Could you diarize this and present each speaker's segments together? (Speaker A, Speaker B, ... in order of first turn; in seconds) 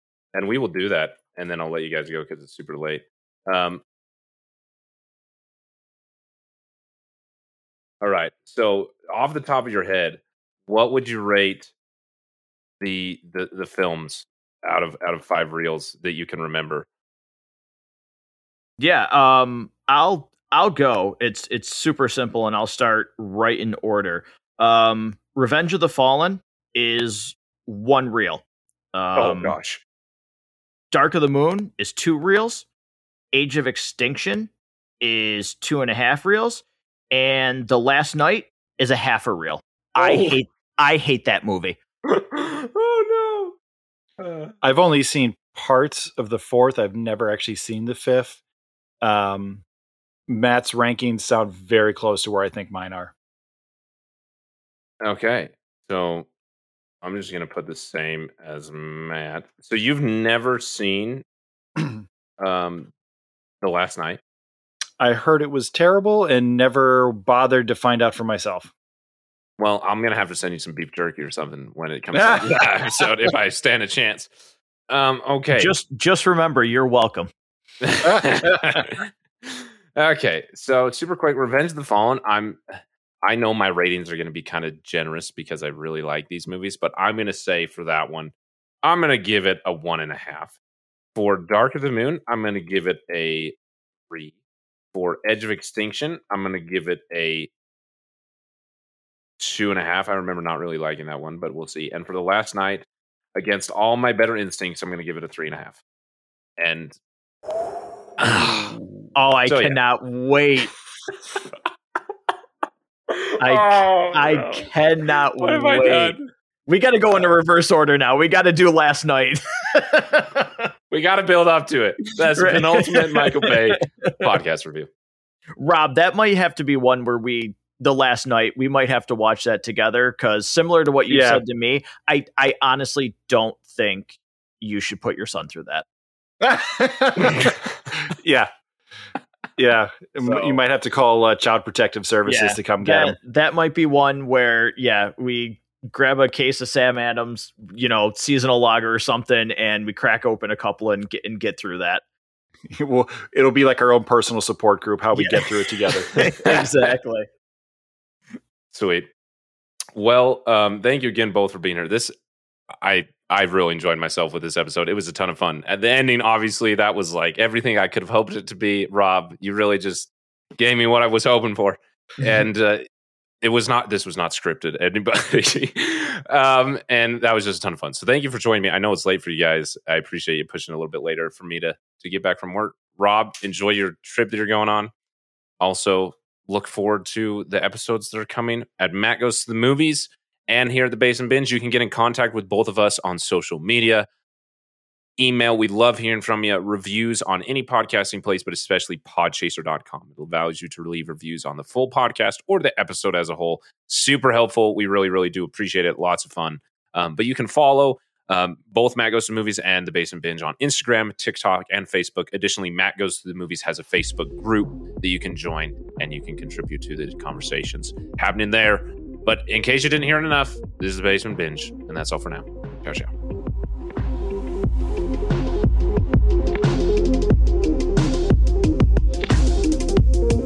Speaker A: 0.3-3.8, 8.0-11.7, 12.8-16.9, 29.2-29.8, 40.0-40.4, 42.0-43.5, 44.2-44.5, 55.0-56.3, 57.0-61.2, 62.4-62.9, 63.6-64.2, 69.6-74.3, 74.9-75.7, 77.8-82.6, 83.2-90.5, 91.2-93.6, 94.1-94.3, 94.9-97.5, 99.4-105.8, 106.6-107.0, 108.2-109.8, 113.1-114.7, 115.4-116.3, 120.9-124.9, 158.7-159.1, 159.9-162.1, 162.8-172.8, 173.4-184.9, 185.6-194.1, 195.2-223.1
Speaker B: 18.8-28.4, 28.9-29.6, 30.9-32.7, 33.3-41.8, 75.5-77.3, 109.2-110.7, 113.4-116.2, 116.7-120.7, 122.4-124.2, 125.6-135.8, 142.3-152.0, 155.1-157.3
Speaker C: 44.6-48.4, 49.0-49.6, 50.3-53.1, 65.0-68.7, 72.1-72.5, 73.0-73.3, 78.0-78.9, 131.1-131.4, 136.4-138.5, 139.6-143.2, 152.7-156.2